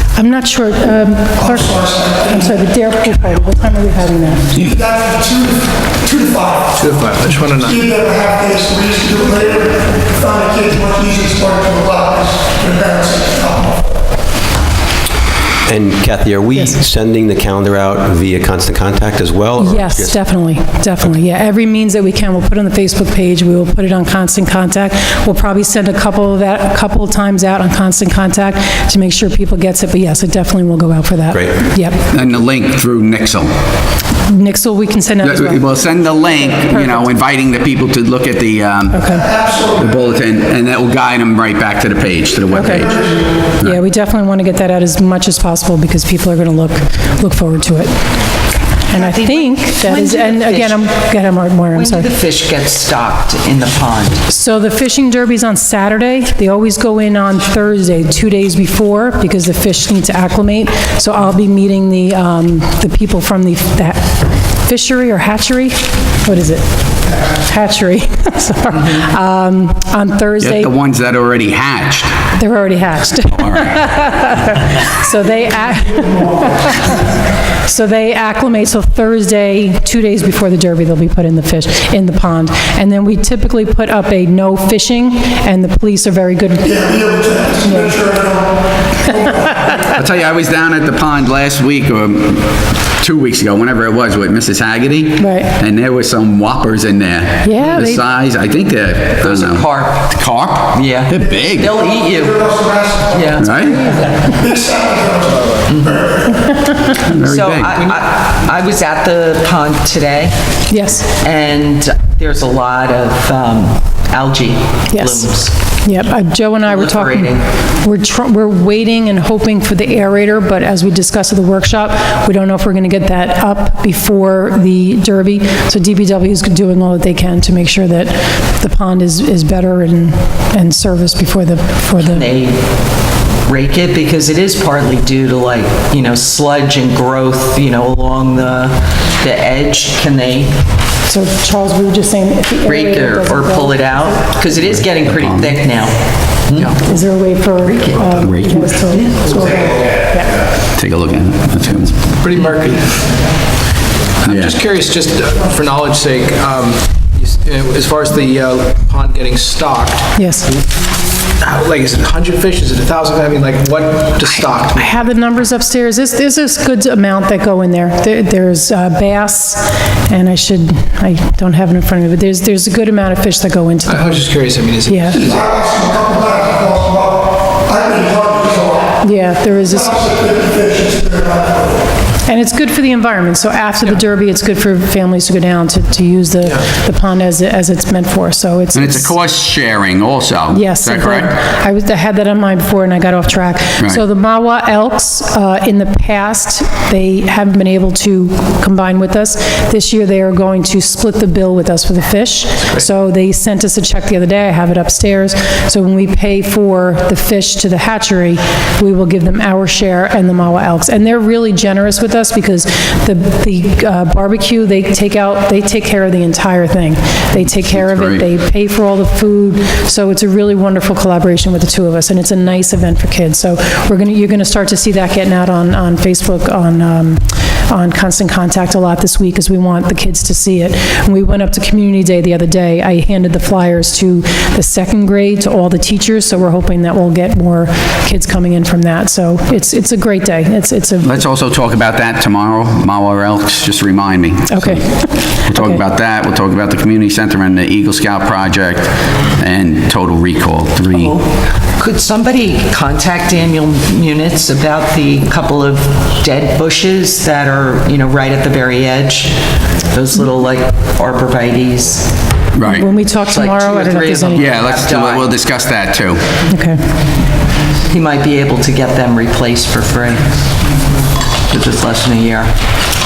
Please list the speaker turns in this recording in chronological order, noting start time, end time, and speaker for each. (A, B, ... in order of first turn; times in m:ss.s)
0:00.1-0:04.5 A
0:01.4-0:02.4 B
0:04.6-0:06.8 B
0:06.8-0:07.8 C
0:07.7-0:14.0 B
0:15.7-0:20.2 D
0:16.5-0:16.8 A
0:19.6-0:32.0 A
0:32.1-0:33.5 E
0:34.3-0:37.1 A
0:35.2-0:39.2 E
0:38.9-0:39.3 A
0:39.2-0:39.9 B
0:39.7-0:43.0 E
0:42.5-0:47.9 A
0:48.9-0:52.1 A
0:48.9-0:50.9 F
0:51.7-0:54.2 F
0:54.3-1:06.7 A
1:07.2-1:10.7 A
1:10.4-1:12.3 E
1:12.3-1:26.9 A
1:13.4-1:13.8 E
1:26.7-1:29.8 B
1:27.6-1:28.0 A
1:29.5-1:29.8 A
1:29.9-1:41.7 E
1:35.2-1:35.6 A
1:37.4-1:38.1 A
1:39.2-1:40.1 F
1:40.7-1:44.1 F
1:41.8-1:43.4 B
1:43.4-1:43.9 E
1:43.6-1:44.2 A
1:44.2-1:46.5 B
1:45.7-1:46.1 F
1:46.9-1:47.8 E
1:47.2-1:50.4 F
1:50.7-1:51.1 A
1:51.2-1:55.5 F
1:54.9-2:12.3 A
1:56.7-1:57.4 F
2:12.0-2:20.6 F
2:21.1-2:24.4 A
2:22.7-2:26.8 F
2:25.0-2:25.6 E
2:26.8-2:30.4 A
2:27.7-2:29.2 F
2:28.2-2:28.8 E
2:30.7-2:32.1 E
2:32.2-2:33.1 C
2:34.2-2:34.6 E
2:34.2-2:40.1 C
2:40.2-2:40.6 A
2:41.4-2:45.0 C
2:44.3-2:54.2 A
2:53.8-2:55.3 C
2:54.9-2:55.2 A
2:55.2-2:59.0 B
2:59.0-3:00.1 A
2:59.8-3:01.8 B
3:02.2-3:09.1 A
3:08.7-3:11.4 E
3:10.5-4:01.2 A
3:37.7-3:38.2 E
4:01.0-4:11.2 E
4:04.5-4:05.8 A
4:10.9-4:22.2 F
4:22.6-4:22.9 E
4:22.6-4:24.6 A
4:23.3-4:25.4 F
4:24.4-4:26.2 E
4:26.5-4:26.8 A
4:27.9-4:30.3 F
4:31.5-4:32.5 F